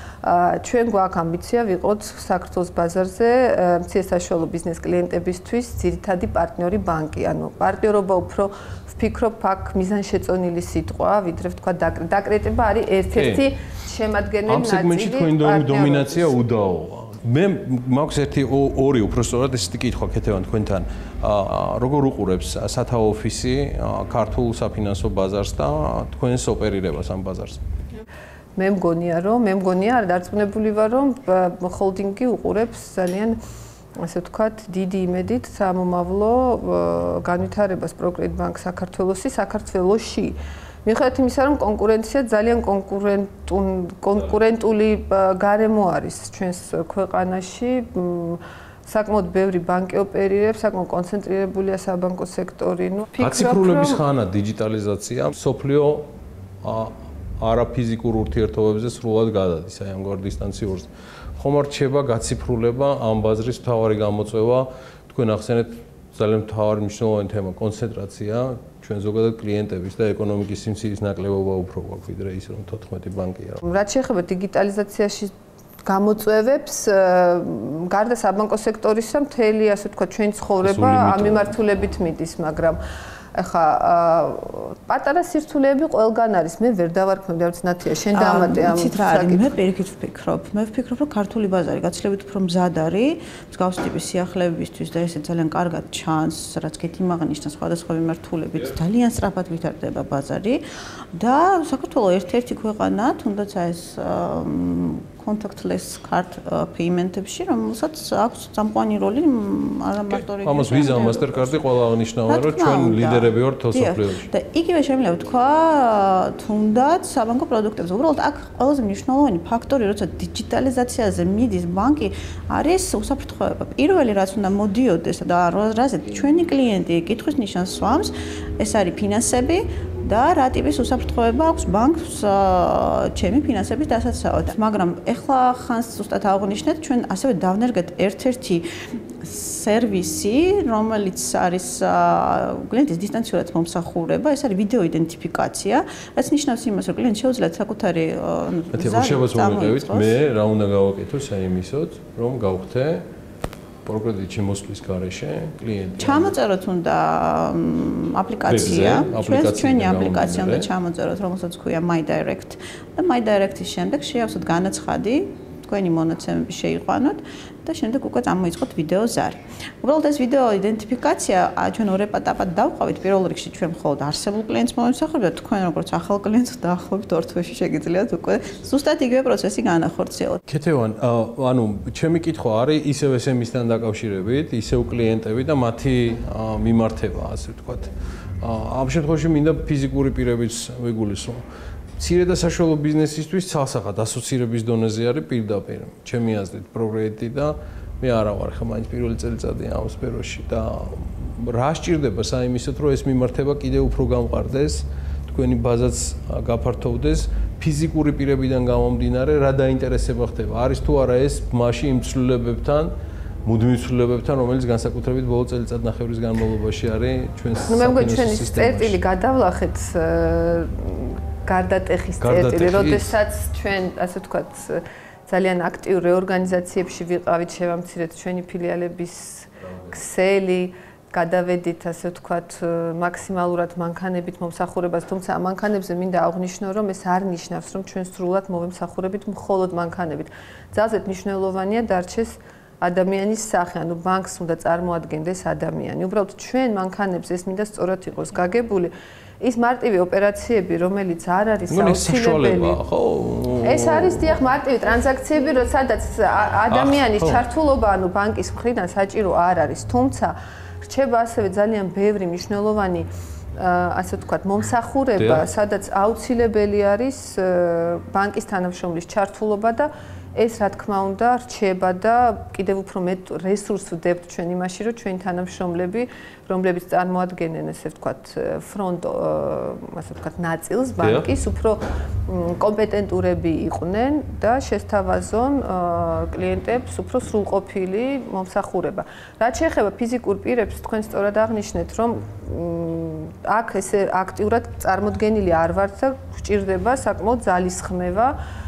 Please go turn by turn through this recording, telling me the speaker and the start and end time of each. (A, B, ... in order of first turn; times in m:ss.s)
0:00.2-0:16.3 A
0:13.1-0:13.4 B
0:14.4-0:27.6 B
0:28.6-0:33.4 A
0:34.0-0:54.0 A
0:53.2-0:56.1 B
0:56.6-1:13.6 B
1:13.6-1:15.3 A
1:15.8-1:22.8 A
1:20.6-1:21.5 B
1:23.3-1:29.5 A
1:28.1-1:40.6 C
1:41.1-1:51.6 C
1:50.4-1:54.3 B
1:52.2-2:18.7 C
2:19.2-2:30.2 C
2:28.7-2:33.0 B
2:33.9-2:36.3 B
2:36.0-3:00.4 C
2:38.5-2:40.7 B
3:00.5-3:07.9 B
3:08.4-3:11.4 B
3:12.0-3:32.9 B
3:33.4-3:39.0 B
3:37.6-4:12.8 A
3:42.2-3:43.1 B
4:11.7-4:14.3 B
4:13.6-4:58.4 A
4:16.7-4:17.4 B
4:25.2-4:25.4 B
4:41.0-4:41.3 B